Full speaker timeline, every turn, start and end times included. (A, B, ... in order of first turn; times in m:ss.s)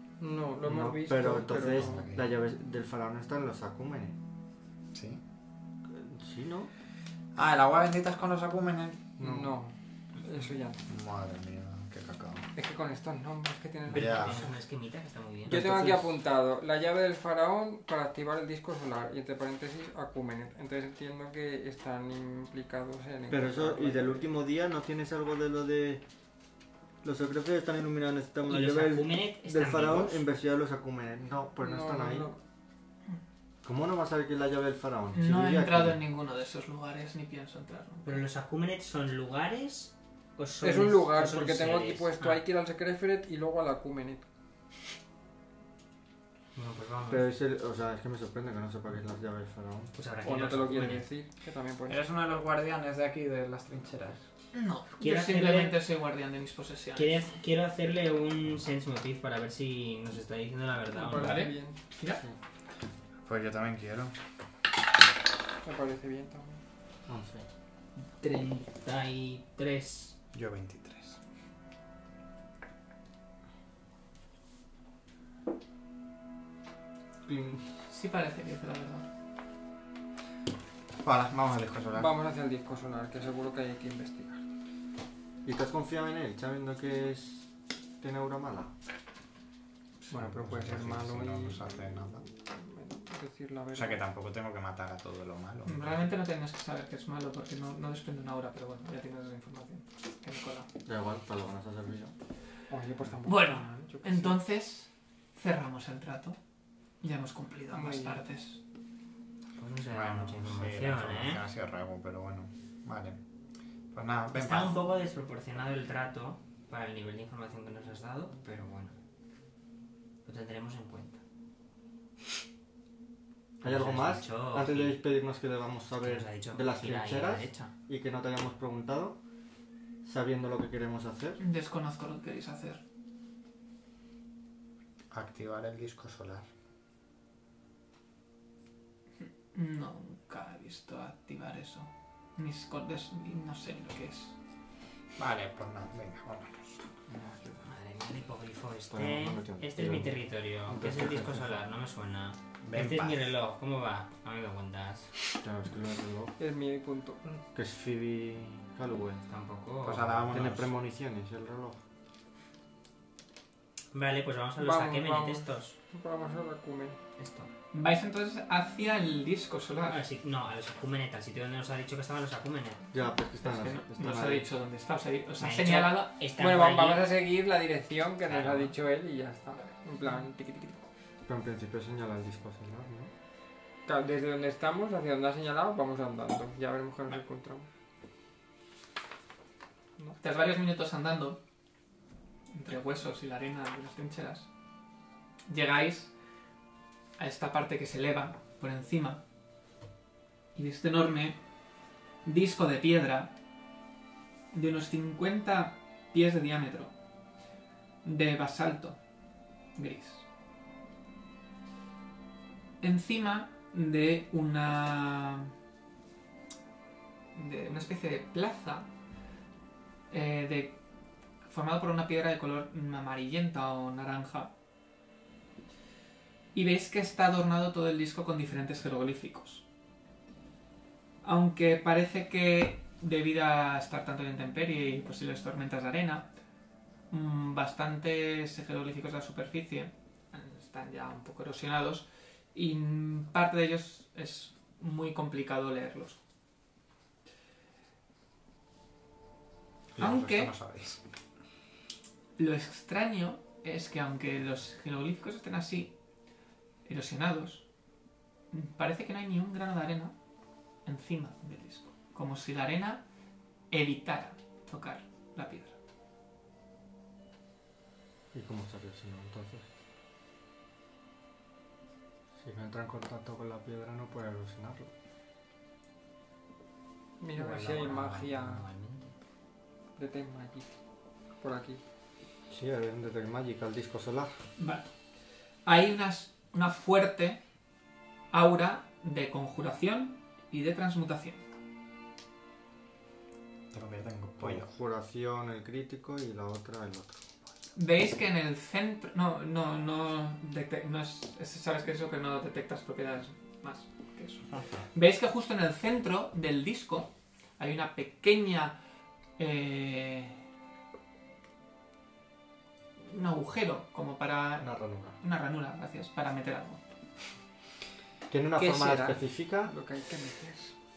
0:00.2-0:02.0 A
0:00.6-0:04.2 B
0:01.6-0:02.2 C
0:04.9-0:05.2 C
0:05.9-0:06.7 B
0:07.3-0:09.1 C
0:09.2-0:10.8 A
0:09.2-0:09.5 B
0:10.9-0:12.5 C
0:12.5-0:14.5 A
0:13.9-0:15.6 D
0:13.9-0:14.5 C
0:15.4-0:24.3 A
0:15.5-0:16.1 B
0:23.3-0:26.0 B
0:27.0-0:32.3 B
0:28.5-0:30.2 D
0:31.6-0:32.4 A
0:33.6-0:36.0 B
0:35.1-0:38.2 E
0:38.0-0:42.4 D
0:40.6-0:44.2 A
0:46.5-0:47.3 D
0:47.1-0:49.9 B
0:49.9-0:51.1 D
0:50.2-0:52.0 A
0:51.9-0:54.2 C
0:54.5-0:57.2 E
0:55.0-0:55.8 D
0:57.0-1:01.5 D
1:00.9-1:01.8 A
1:01.2-1:02.2 E
1:03.2-1:04.1 C
1:05.6-1:06.6 A
1:07.1-1:07.5 B
1:08.2-1:10.2 D
1:10.3-1:11.2 C
1:17.2-1:17.6 B
1:17.9-1:19.1 E
1:21.0-1:22.1 C
1:21.9-1:24.4 A
1:25.4-1:27.5 B
1:28.0-1:28.7 B
1:30.1-1:32.2 C
1:30.1-1:31.6 A
1:32.5-1:34.0 A
1:33.7-1:36.1 C
1:35.6-1:40.7 E
1:40.8-1:42.1 B
1:42.7-1:44.4 A
1:43.2-1:46.4 E
1:47.0-1:48.6 E
1:47.7-1:48.2 A
1:49.6-1:51.4 D
1:49.9-1:53.2 C
1:53.9-1:54.8 C
1:54.3-1:58.9 D
2:00.2-2:01.2 D
2:03.6-2:09.2 B
2:03.6-2:05.0 D
2:06.0-2:07.7 D
2:10.0-2:11.4 B
2:11.4-2:12.8 E
2:15.1-2:16.5 C
2:19.5-2:24.3 E
2:25.2-2:26.8 C
2:27.1-2:27.7 B
2:27.6-2:35.1 D
2:28.9-2:30.2 B
2:30.7-2:31.5 B
2:32.6-2:33.3 C
2:35.4-2:36.3 B
2:36.4-2:37.4 A
2:37.5-2:39.2 B
2:39.3-2:40.3 D
2:39.8-2:40.7 C
2:40.3-2:41.8 B
2:43.9-2:45.8 D
2:44.6-2:47.0 A
2:47.2-2:47.5 D
2:47.7-2:50.0 E
2:49.9-2:52.8 D
2:52.9-2:54.5 B
2:53.4-2:56.1 E
2:55.4-2:57.1 D
2:56.4-3:00.8 A
2:58.3-2:58.7 D
3:01.2-3:03.1 B
3:03.8-3:07.7 A
3:10.2-3:11.4 E
3:12.5-3:14.5 E
3:15.5-3:16.1 E
3:17.2-3:19.2 E
3:20.5-3:21.4 E
3:22.2-3:23.3 E
3:24.5-3:26.9 E
3:28.0-3:29.0 E
3:29.8-3:30.2 E
3:32.8-3:35.5 E
3:37.3-3:38.9 E
3:40.1-3:40.8 E
3:41.5-3:44.5 E
3:46.5-3:49.6 E
3:51.2-3:56.2 E
3:57.1-4:06.2 E
4:09.9-4:11.0 C
4:10.0-4:10.5 E
4:12.4-4:15.9 E
4:16.8-4:17.6 E
4:18.5-4:20.1 E
4:20.8-4:23.0 E
4:23.7-4:25.8 E
4:28.3-4:29.6 B
4:32.4-4:34.9 B
4:37.2-4:38.6 A
4:37.3-4:39.1 D
4:40.0-4:40.7 A
4:41.4-4:41.8 A
4:42.5-4:44.3 B
4:44.6-4:44.9 E
4:45.6-4:47.4 E
4:48.3-4:51.4 E
4:53.7-4:54.7 C
4:54.4-4:57.2 B
4:57.8-5:08.8 E
5:04.5-5:04.8 C
5:09.4-5:10.4 E
5:13.0-5:14.7 E
5:14.6-5:15.2 B
5:15.2-5:16.8 E
5:18.3-5:19.7 B
5:18.6-5:20.7 A